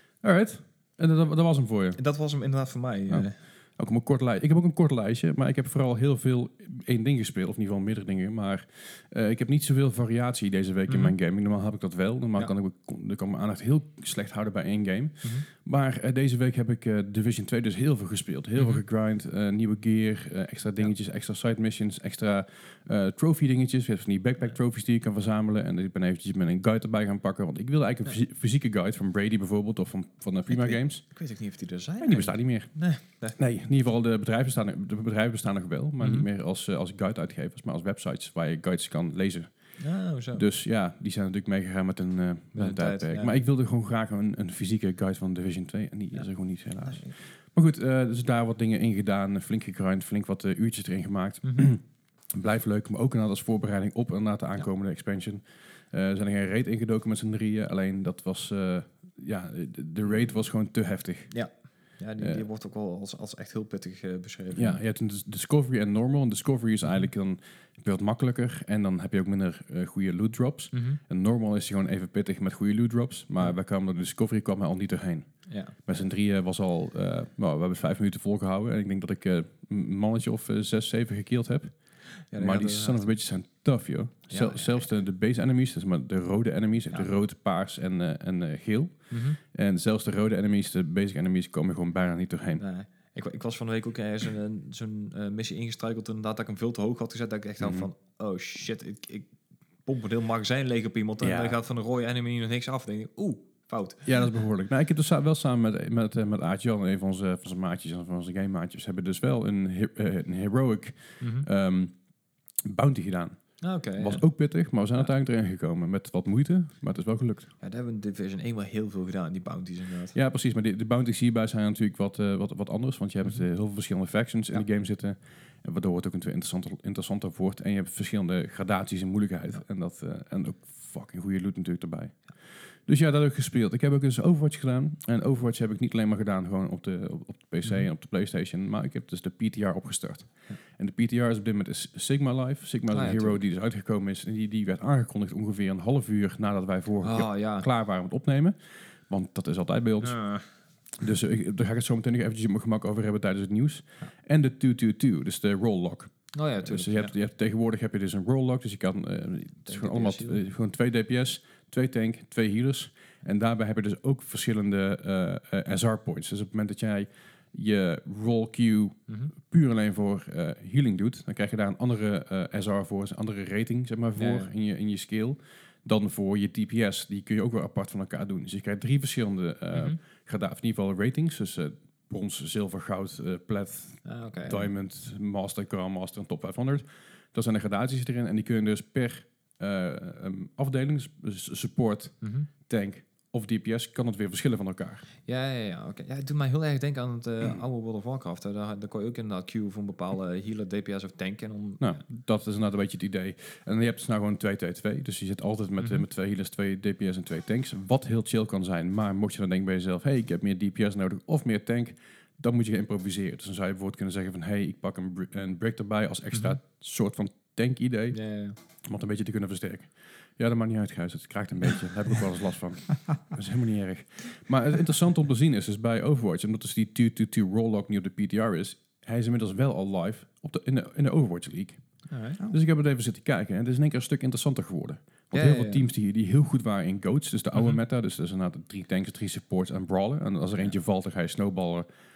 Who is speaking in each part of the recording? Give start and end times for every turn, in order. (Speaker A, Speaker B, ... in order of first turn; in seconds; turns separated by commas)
Speaker A: 0.2-2.0, Speaker B: 2.0-3.4, Speaker A: 3.1-31.1, Speaker B: 10.9-11.1, Speaker B: 18.6-18.8, Speaker B: 30.5-33.4, Speaker A: 32.0-61.6, Speaker B: 36.0-36.3, Speaker B: 39.8-40.4, Speaker B: 42.5-43.4, Speaker B: 46.1-47.2, Speaker B: 51.4-51.7, Speaker B: 60.1-60.4, Speaker B: 61.3-64.8, Speaker A: 62.2-62.4, Speaker A: 64.5-92.6, Speaker B: 70.7-71.0, Speaker B: 75.5-76.1, Speaker B: 82.2-83.1, Speaker B: 84.3-84.9, Speaker B: 89.1-89.4, Speaker B: 92.6-104.3, Speaker A: 97.6-97.9, Speaker A: 101.2-101.6, Speaker A: 104.0-112.0, Speaker B: 111.2-111.5, Speaker A: 112.7-117.5, Speaker B: 113.6-115.1, Speaker B: 117.6-120.2, Speaker A: 120.1-195.1, Speaker B: 142.9-143.4, Speaker B: 147.0-147.7, Speaker B: 150.0-150.5, Speaker B: 156.3-157.1, Speaker B: 159.7-160.4, Speaker B: 174.2-174.5, Speaker B: 179.7-180.0, Speaker B: 184.0-184.7, Speaker B: 192.2-192.5, Speaker B: 195.2-202.0, Speaker A: 201.8-241.9, Speaker B: 218.1-218.6, Speaker B: 232.1-232.4, Speaker B: 235.3-235.9